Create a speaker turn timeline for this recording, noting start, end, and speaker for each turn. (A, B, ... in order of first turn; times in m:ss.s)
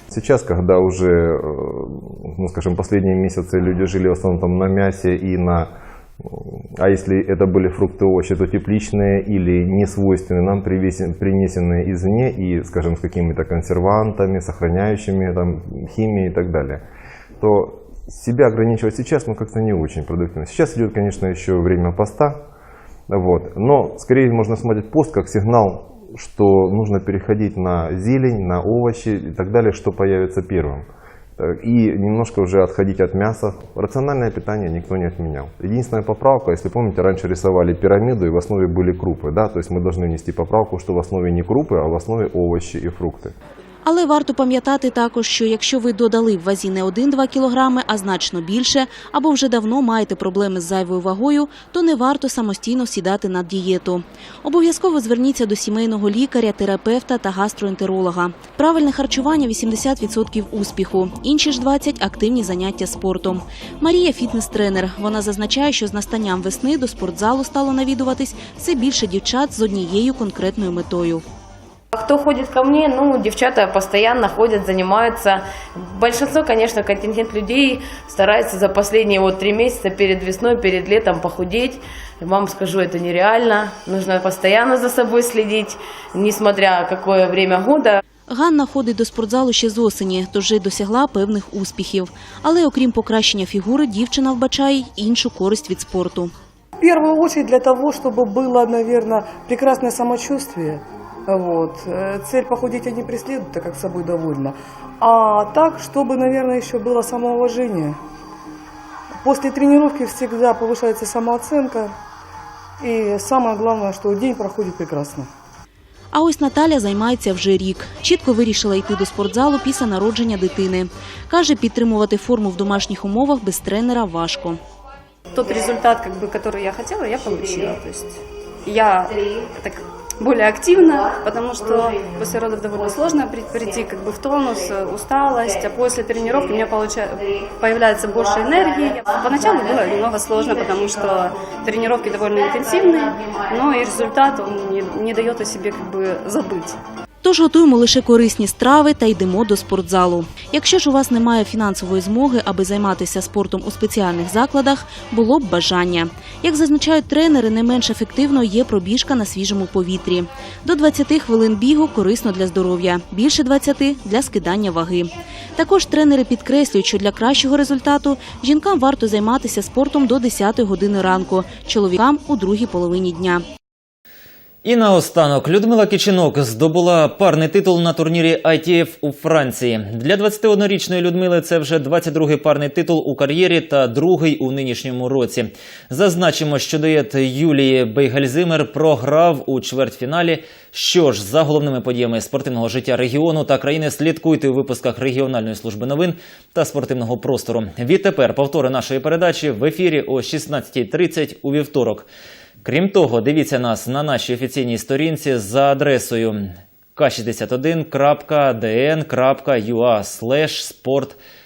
0:00.1-0:16.8 A
0:17.4-0:22.4 A
0:23.1-0:43.3 A
0:43.8-1:11.2 B
1:11.9-1:28.0 C
1:28.3-1:36.3 B
1:36.8-1:48.0 D
1:49.2-1:51.9 D
1:52.8-1:55.3 D
1:56.1-2:04.6 B
2:05.3-2:26.8 E
2:27.2-2:53.4 B
2:54.6-3:22.1 F
3:22.6-3:31.2 F